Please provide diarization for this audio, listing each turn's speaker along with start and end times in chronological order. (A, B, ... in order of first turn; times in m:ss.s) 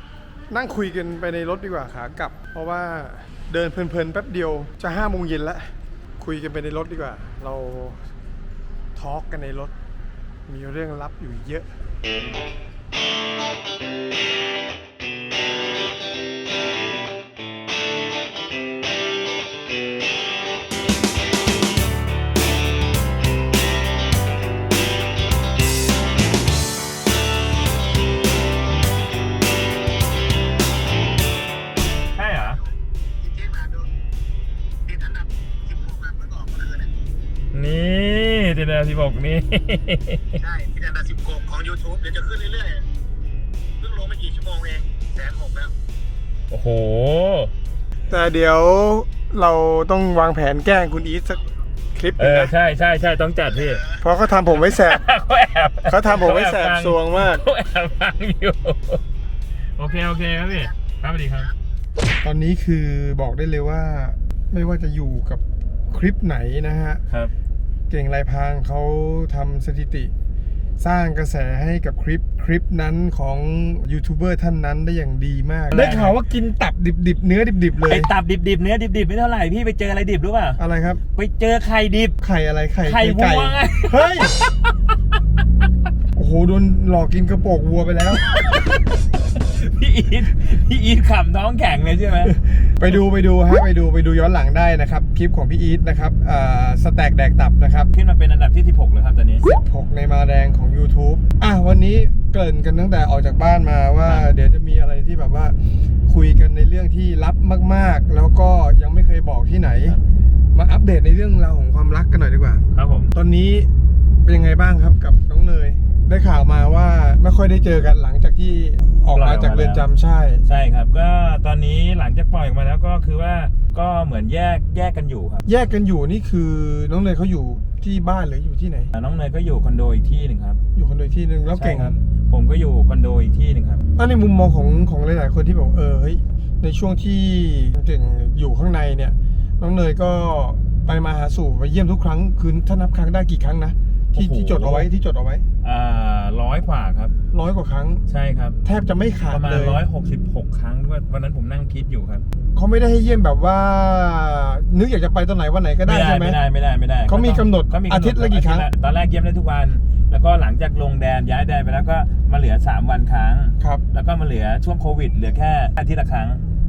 0:00.5-0:08.0 A
0:09.0-0:09.7 A
0:10.5-0:11.7 A
0:32.1-0:32.6 B
0:33.3-0:33.8 C
0:34.9-0:36.9 C
0:37.5-0:40.5 B
0:40.6-0:42.8 C
0:43.8-0:45.7 C
0:46.5-0:47.5 B
0:48.1-0:52.5 A
0:52.2-0:53.9 B
0:54.0-0:55.0 A
0:54.5-0:59.0 B
0:55.9-0:57.4 A
0:59.8-1:01.5 B
1:02.2-1:07.0 A
1:07.9-1:10.1 A
1:10.8-1:18.1 A
1:15.7-1:16.2 B
1:17.8-1:20.6 B
1:20.6-1:21.0 A
1:21.1-1:22.2 B
1:22.2-1:24.3 A
1:22.8-1:24.7 B
1:26.1-1:28.3 A
1:28.2-1:32.4 B
1:32.3-1:37.9 A
1:37.9-1:39.4 B
1:39.5-1:45.5 A
1:46.1-1:50.0 A
1:50.5-1:53.7 A
1:52.7-1:53.1 B
1:54.2-2:00.4 A
1:59.1-1:59.9 B
2:00.4-2:05.4 B
2:05.4-2:08.9 A
2:08.9-2:10.6 B
2:10.7-2:11.9 A
2:11.5-2:13.8 B
2:14.0-2:25.4 A
2:24.1-2:24.9 B
2:25.6-2:27.1 B
2:27.3-2:28.0 A
2:28.1-2:28.6 B
2:28.6-2:29.8 A
2:29.3-2:32.2 B
2:32.5-2:36.4 A
2:35.8-2:46.4 B
2:37.1-2:38.7 A